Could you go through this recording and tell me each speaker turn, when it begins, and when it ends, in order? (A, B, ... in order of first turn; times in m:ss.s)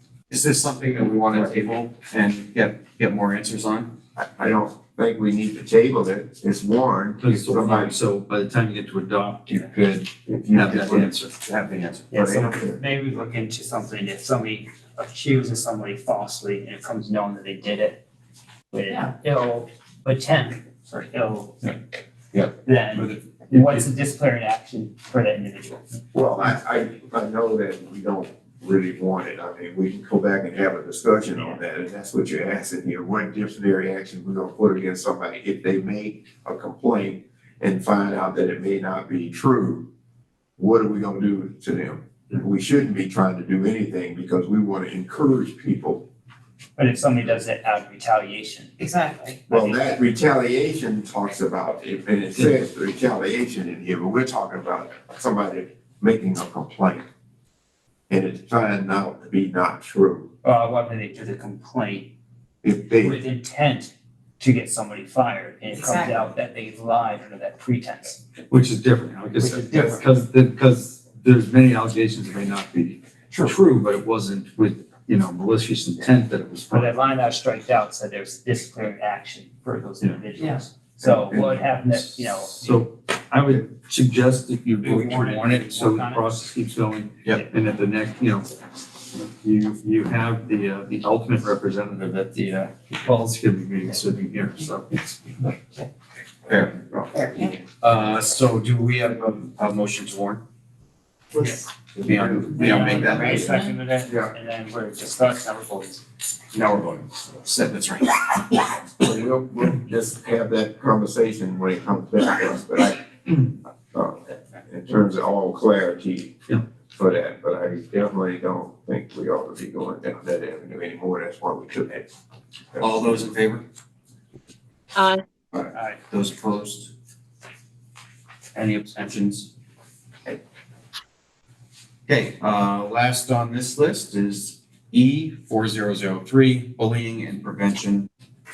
0:00.3-0:03.9 A
0:04.2-0:08.0 B
0:07.2-0:11.4 C
0:10.3-0:11.1 B
0:10.5-0:12.1 A
0:12.1-0:18.0 D
0:12.1-0:12.8 B
0:18.7-0:21.8 D
0:22.3-0:23.1 B
0:22.6-0:25.8 D
0:26.1-0:39.9 B
0:31.3-0:31.6 D
0:40.6-0:46.0 B
0:46.8-0:48.8 D
0:48.8-0:49.4 E
0:49.4-0:49.9 D
0:49.5-0:57.0 B
0:58.1-1:00.3 B
1:00.4-1:02.1 D
1:02.6-1:03.2 B
1:03.0-1:08.2 D
1:05.7-1:06.3 E
1:08.5-1:16.9 C
1:09.4-1:10.0 D
1:16.7-1:22.9 D
1:21.0-1:21.6 B
1:21.6-1:35.5 C
1:24.8-1:26.3 D
1:36.5-1:36.9 A
1:36.9-1:37.6 B
1:37.8-1:40.4 A
1:41.3-1:41.6 E
1:42.0-1:43.1 B
1:42.0-1:43.5 A
1:42.5-1:46.0 D
1:42.6-1:43.7 E
1:46.5-1:48.6 A
1:49.0-1:53.4 B
1:53.9-1:56.4 B
1:56.9-2:02.1 B
2:02.7-2:03.2 B
2:02.8-2:03.6 A
2:05.7-2:06.0 D
2:06.1-2:06.9 A
2:08.6-2:09.5 A
2:12.1-2:18.1 A